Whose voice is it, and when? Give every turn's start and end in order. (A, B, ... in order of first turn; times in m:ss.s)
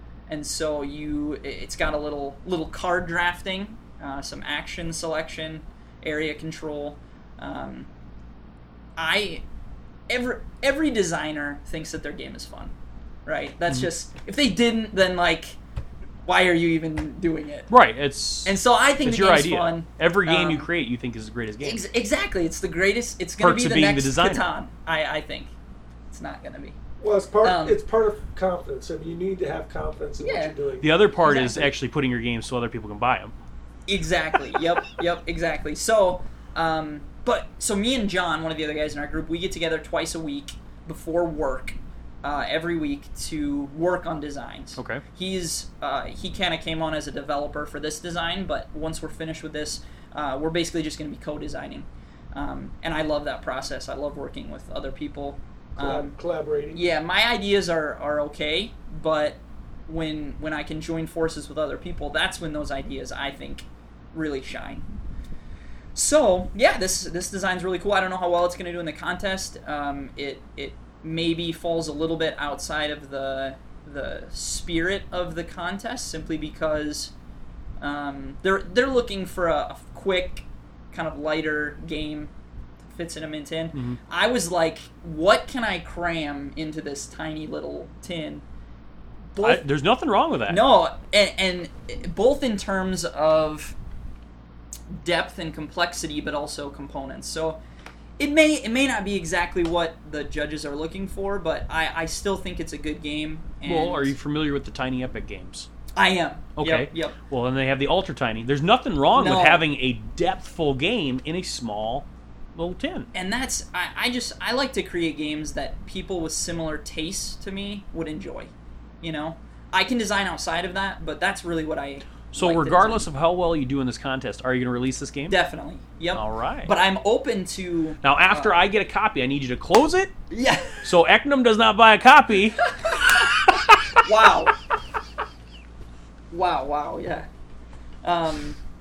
0:00.3-0:07.9 A
0:09.0-0:09.4 A
0:10.1-0:12.7 A
0:13.3-0:15.6 A
0:16.3-0:17.7 A
0:17.7-0:21.8 B
0:18.4-0:20.7 A
0:21.6-0:25.5 A
0:23.4-0:24.5 B
0:26.1-0:26.8 A
0:27.0-0:31.0 C
0:27.4-0:27.8 A
0:30.2-0:30.6 A
0:30.8-0:33.3 B
0:31.2-0:31.7 A
0:33.9-0:56.1 A
0:44.8-0:45.0 B
0:55.8-0:56.8 C
0:56.7-1:04.9 A
1:06.0-1:17.1 A
1:17.8-1:22.3 A
1:22.9-1:28.4 A
1:23.7-1:24.0 B
1:29.3-1:29.6 A
1:29.4-1:30.6 B
1:30.5-1:33.8 A
1:34.9-1:37.6 A
1:38.2-1:44.1 A
1:43.6-1:45.7 B
1:46.0-1:47.2 A
1:46.6-1:53.1 B
1:49.2-1:49.6 A
1:53.1-1:58.5 A
1:59.0-2:03.1 A
2:02.3-2:05.4 B
2:05.3-2:08.6 A
2:06.2-2:06.7 B
2:08.0-2:10.1 B
2:10.3-2:10.9 A
2:10.8-2:12.7 B
2:12.8-2:13.2 A
2:14.0-2:14.5 A
2:16.3-2:17.3 A
2:18.0-2:18.6 A